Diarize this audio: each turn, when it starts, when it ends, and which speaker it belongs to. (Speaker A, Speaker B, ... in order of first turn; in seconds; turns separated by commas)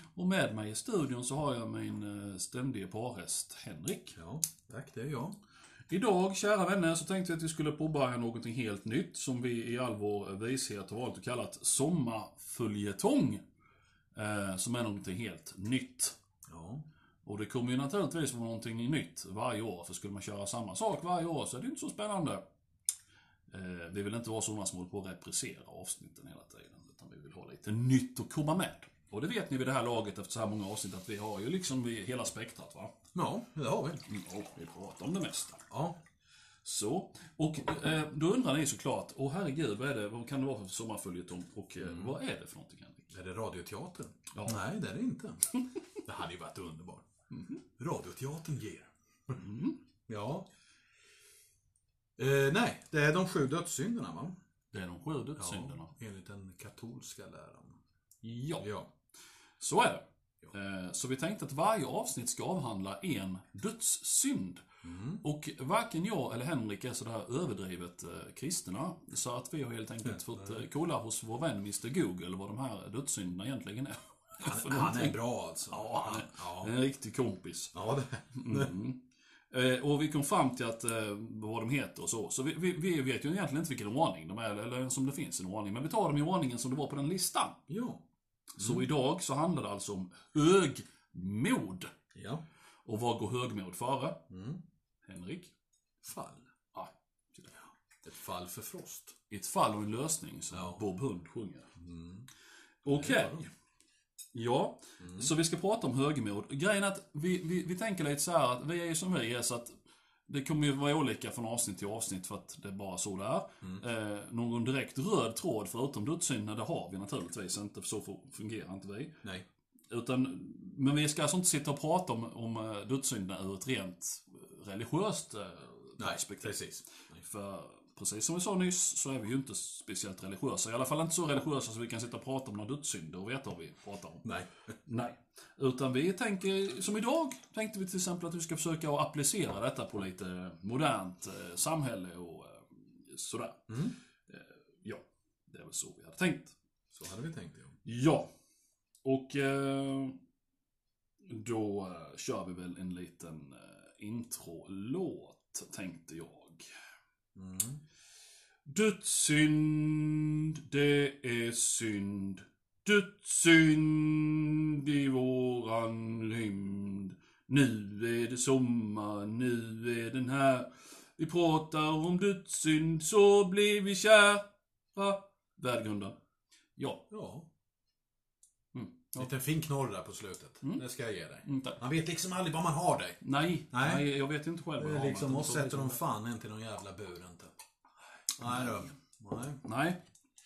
Speaker A: 0.1-4.2, Speaker B: 4.2-5.4, Speaker A: 5.9-13.4, Speaker A: 14.1-16.1, Speaker B: 16.5-16.8, Speaker A: 17.2-22.4, Speaker A: 23.5-32.9, Speaker B: 33.1-34.0, Speaker A: 34.1-35.6, Speaker B: 35.7-36.0, Speaker A: 36.6-43.1, Speaker B: 41.8-42.1, Speaker B: 43.1-45.5, Speaker A: 44.3-44.6, Speaker B: 46.0-47.0, Speaker A: 47.3-47.6, Speaker B: 47.8-49.4, Speaker A: 49.3-49.8, Speaker B: 50.1-50.5, Speaker B: 52.2-54.4, Speaker A: 54.7-55.9, Speaker B: 55.4-57.8, Speaker A: 58.2-58.7, Speaker B: 58.6-58.9, Speaker A: 59.6-64.6, Speaker B: 64.8-65.2, Speaker A: 65.2-75.2, Speaker B: 74.4-76.7, Speaker A: 75.7-77.7, Speaker B: 77.7-78.7, Speaker A: 78.3-87.6, Speaker B: 87.7-88.0, Speaker A: 88.5-91.9, Speaker B: 88.6-88.8, Speaker B: 92.1-92.4, Speaker A: 92.8-94.2, Speaker B: 94.3-94.6, Speaker A: 95.0-95.5, Speaker B: 96.0-96.5, Speaker A: 96.7-97.6, Speaker B: 98.0-99.1, Speaker A: 99.3-101.7, Speaker B: 100.5-100.8, Speaker B: 101.8-102.3, Speaker A: 102.8-103.5, Speaker B: 102.9-103.5, Speaker A: 104.3-109.7, Speaker B: 105.0-105.3, Speaker A: 110.3-119.1, Speaker A: 119.9-126.6, Speaker B: 126.0-127.2, Speaker A: 127.2-134.3, Speaker A: 134.8-143.7, Speaker B: 143.7-143.9, Speaker A: 144.3-146.5, Speaker B: 146.9-147.7, Speaker A: 147.8-148.3, Speaker A: 149.0-150.2, Speaker A: 151.2-156.7, Speaker B: 157.3-157.8, Speaker A: 158.7-176.2, Speaker A: 176.8-177.1, Speaker B: 177.1-177.4, Speaker A: 178.7-179.2, Speaker B: 179.2-183.2, Speaker A: 181.4-181.8, Speaker A: 183.2-186.0, Speaker B: 183.7-184.1, Speaker B: 184.8-187.5, Speaker B: 188.3-189.6, Speaker A: 188.5-188.7, Speaker A: 189.6-190.0